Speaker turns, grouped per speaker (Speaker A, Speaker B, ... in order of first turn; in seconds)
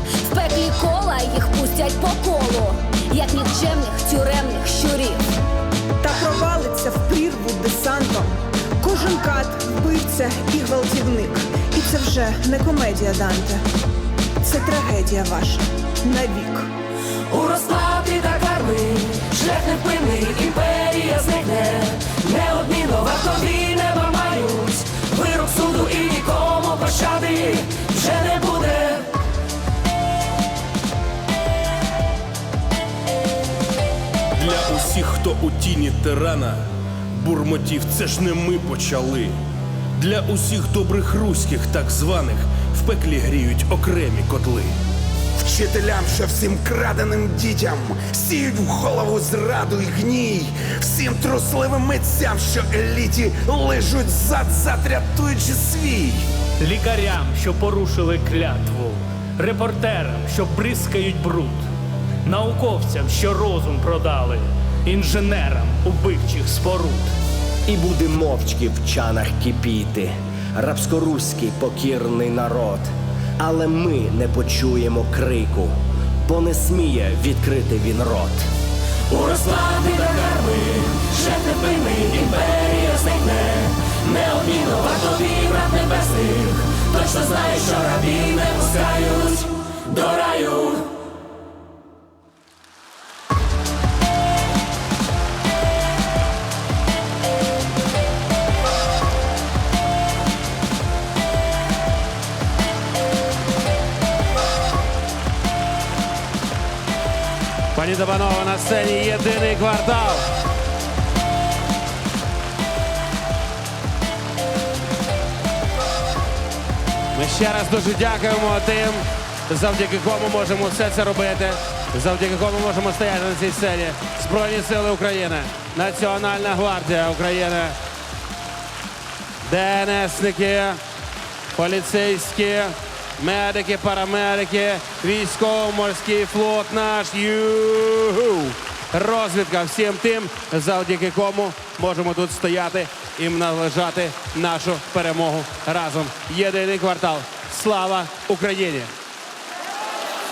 Speaker A: 0.2-5.3
Speaker B: 6.0-13.6, 14.4-16.7
Speaker C: 17.3-29.1, 79.1-90.9
Speaker D: 34.4-36.6, 37.1-39.4, 40.0-44.8
Speaker E: 45.4-56.2
Speaker F: 56.6-61.6, 62.3-67.1
Speaker G: 67.7-75.7, 76.3-78.5
Speaker H: 107.7-110.2, 117.1-127.8, 129.4-130.8, 131.6-148.9